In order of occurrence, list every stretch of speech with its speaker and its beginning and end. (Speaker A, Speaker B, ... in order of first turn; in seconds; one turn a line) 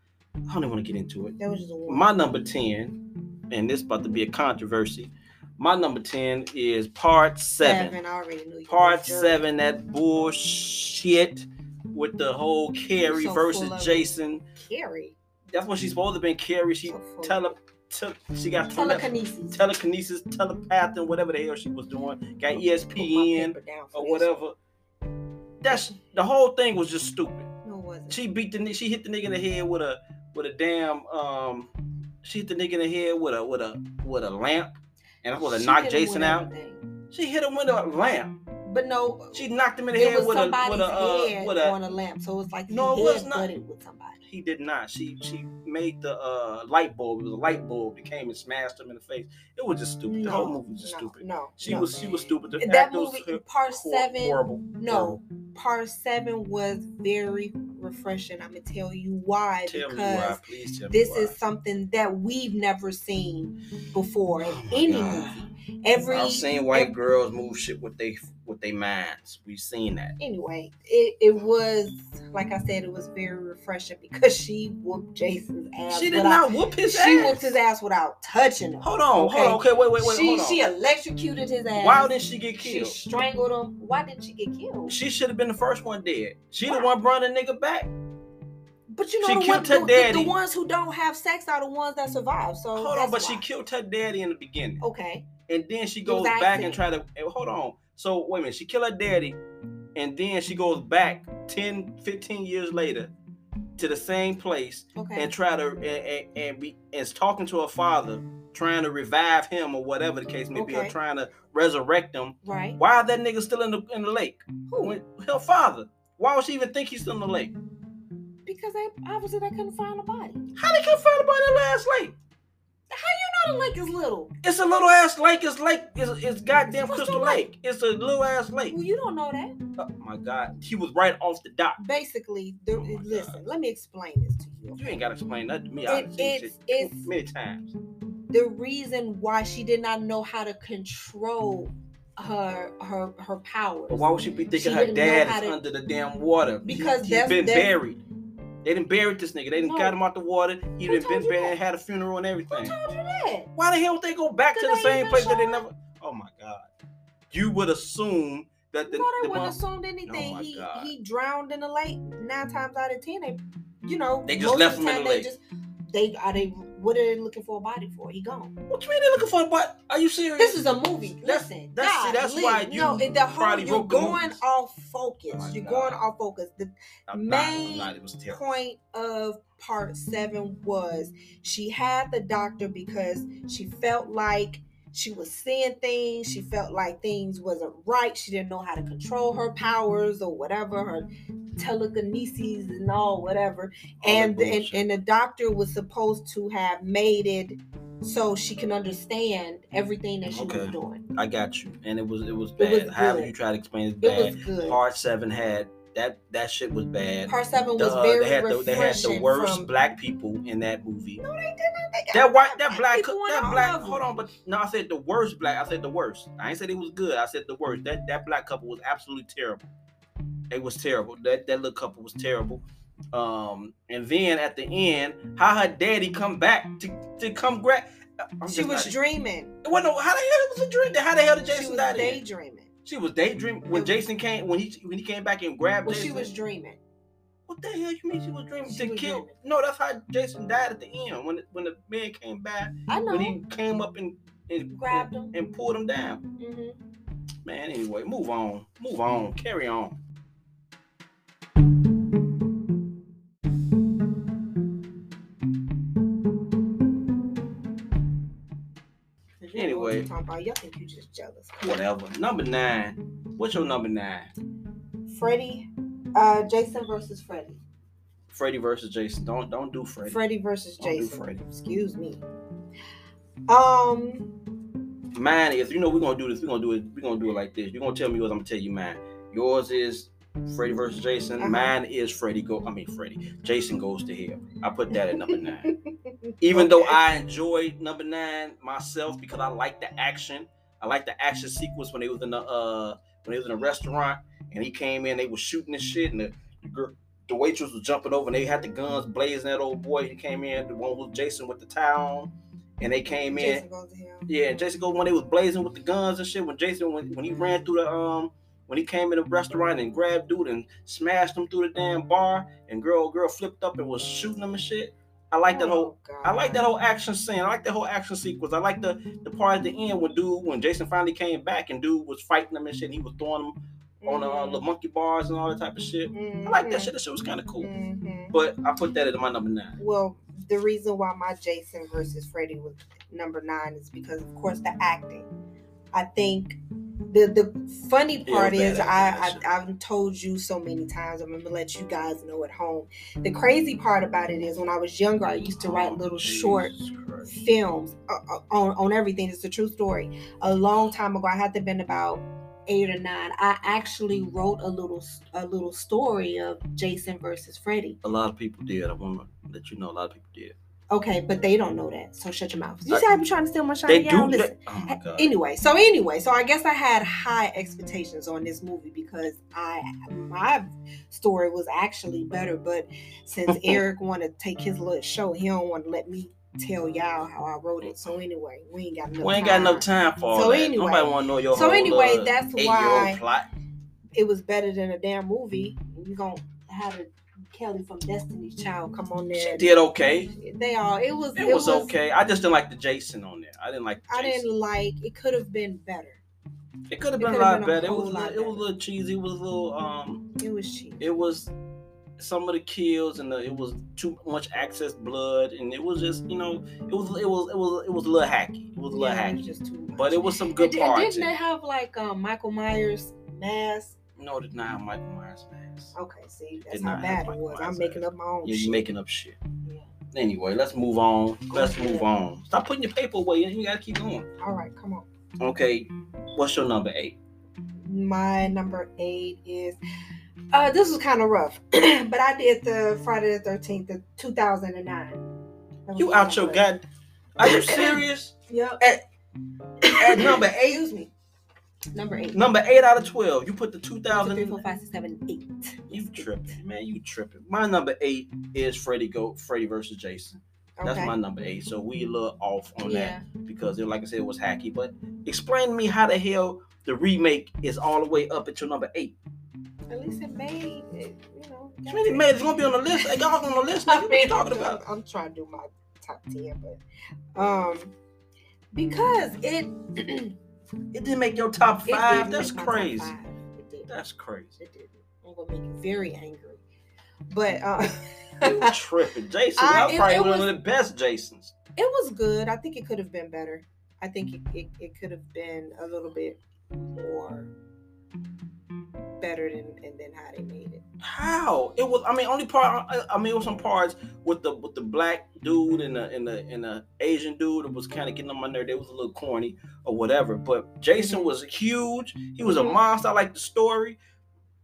Speaker A: 0.5-3.0
Speaker B: 1.4-2.1
Speaker A: 3.5-8.0
Speaker B: 7.6-9.4
Speaker A: 8.7-14.4
Speaker B: 13.0-14.1
Speaker B: 14.6-15.2
Speaker A: 15.5-24.6
Speaker B: 16.9-17.6
Speaker B: 18.7-19.6
Speaker B: 22.9-24.4
Speaker A: 25.6-27.5
Speaker B: 27.6-28.2
Speaker A: 28.1-31.7
Speaker A: 32.2-34.7
Speaker A: 35.2-36.5
Speaker B: 35.4-36.9
Speaker A: 37.1-38.3
Speaker B: 38.6-44.2
Speaker A: 39.3-41.8
Speaker A: 42.7-43.5
Speaker A: 44.2-55.2
Speaker B: 50.0-51.9
Speaker B: 52.6-66.9
Speaker A: 59.7-61.3
Speaker A: 64.5-65.4
Speaker A: 66.1-70.2
Speaker B: 70.2-85.0
Speaker A: 75.9-77.6
Speaker A: 78.8-80.7
Speaker A: 81.8-83.0
Speaker A: 84.9-87.9
Speaker B: 86.6-86.9
Speaker B: 88.9-93.4
Speaker A: 89.2-90.3
Speaker A: 92.7-94.8
Speaker B: 94.8-95.2
Speaker A: 95.5-99.4
Speaker B: 96.0-96.8
Speaker A: 99.9-103.1
Speaker A: 103.8-117.5
Speaker B: 105.0-105.3
Speaker B: 110.5-110.9
Speaker B: 112.4-112.8
Speaker B: 114.7-115.0
Speaker B: 118.5-120.4
Speaker A: 120.5-122.1
Speaker B: 122.9-124.3
Speaker A: 124.4-128.8
Speaker B: 126.7-127.4
Speaker B: 128.7-129.6
Speaker A: 129.8-131.8
Speaker B: 131.8-134.9
Speaker A: 132.8-133.4
Speaker A: 134.8-137.7
Speaker B: 135.9-137.1
Speaker B: 138.3-145.6
Speaker A: 143.9-148.0
Speaker B: 146.6-147.7
Speaker A: 148.6-152.7
Speaker B: 149.6-149.9
Speaker B: 150.9-151.5
Speaker B: 152.5-153.5
Speaker A: 153.5-156.7
Speaker B: 154.5-155.6
Speaker A: 157.3-160.9
Speaker B: 158.8-168.5
Speaker A: 164.2-165.3
Speaker A: 168.7-174.4
Speaker B: 170.4-191.1
Speaker A: 175.3-176.0
Speaker A: 177.1-178.4
Speaker B: 191.6-201.0
Speaker A: 194.0-194.8
Speaker A: 200.3-211.2
Speaker B: 202.6-203.3
Speaker B: 204.0-204.8
Speaker B: 207.3-209.7
Speaker B: 211.2-214.1
Speaker A: 212.1-219.7
Speaker A: 220.5-222.6
Speaker A: 223.1-227.9
Speaker A: 228.4-228.9
Speaker B: 228.4-229.5
Speaker A: 229.6-232.2
Speaker B: 231.4-232.7
Speaker A: 232.8-236.3
Speaker B: 233.7-234.0
Speaker B: 235.8-236.8
Speaker A: 237.5-246.2
Speaker B: 238.6-239.3
Speaker B: 242.9-243.3
Speaker B: 244.7-245.3
Speaker B: 246.4-246.8
Speaker A: 247.4-250.0
Speaker B: 259.4-261.7
Speaker A: 259.5-260.1
Speaker A: 261.6-264.3
Speaker B: 265.1-267.6
Speaker A: 268.3-270.2
Speaker B: 270.1-272.2
Speaker A: 270.8-271.4
Speaker B: 273.5-274.3
Speaker A: 275.1-285.7
Speaker B: 281.4-281.7
Speaker B: 285.3-285.9
Speaker A: 286.4-303.6
Speaker B: 286.5-286.9
Speaker B: 303.1-304.3
Speaker A: 304.3-327.7
Speaker B: 315.5-316.6
Speaker B: 324.0-324.6
Speaker B: 326.1-326.9
Speaker B: 327.6-328.3
Speaker A: 328.3-329.8
Speaker B: 329.8-335.3
Speaker B: 335.9-336.6
Speaker B: 337.1-346.7
Speaker A: 338.3-339.4
Speaker A: 345.4-347.3
Speaker B: 347.2-358.0
Speaker A: 358.0-360.5
Speaker B: 360.9-383.2
Speaker A: 363.9-365.3
Speaker A: 373.5-373.8
Speaker A: 379.2-383.5
Speaker B: 384.1-389.7
Speaker A: 389.3-390.3
Speaker B: 390.3-391.9
Speaker A: 391.4-394.5
Speaker B: 394.1-396.2
Speaker A: 396.9-400.2
Speaker B: 397.2-398.6
Speaker B: 400.4-401.1
Speaker A: 401.0-401.5
Speaker A: 402.2-411.3
Speaker B: 408.9-413.9
Speaker A: 414.2-415.9
Speaker B: 415.9-418.9
Speaker A: 416.7-419.4
Speaker B: 419.6-419.9
Speaker A: 420.1-424.3
Speaker B: 421.5-422.1
Speaker B: 424.4-425.1
Speaker A: 425.4-427.2
Speaker B: 427.8-429.8
Speaker B: 430.5-435.2
Speaker B: 435.9-436.6
Speaker A: 435.9-436.8
Speaker A: 437.4-439.0
Speaker B: 437.4-438.8
Speaker B: 439.8-441.1
Speaker A: 440.0-440.9
Speaker B: 441.9-442.4
Speaker A: 442.3-444.6
Speaker B: 444.1-446.2
Speaker A: 445.9-459.1
Speaker B: 450.8-451.1
Speaker B: 452.8-453.2
Speaker B: 459.9-462.3
Speaker A: 461.9-464.8
Speaker B: 463.9-466.8
Speaker B: 467.4-467.9
Speaker B: 468.7-470.3
Speaker A: 470.9-473.1
Speaker B: 471.9-473.9
Speaker A: 473.9-474.6
Speaker B: 474.6-476.6
Speaker B: 477.3-478.7
Speaker A: 478.4-481.5
Speaker B: 479.6-480.5
Speaker B: 481.8-486.4
Speaker B: 486.9-487.5
Speaker B: 489.2-490.8
Speaker A: 491.0-504.0
Speaker B: 501.0-501.3
Speaker B: 502.5-502.8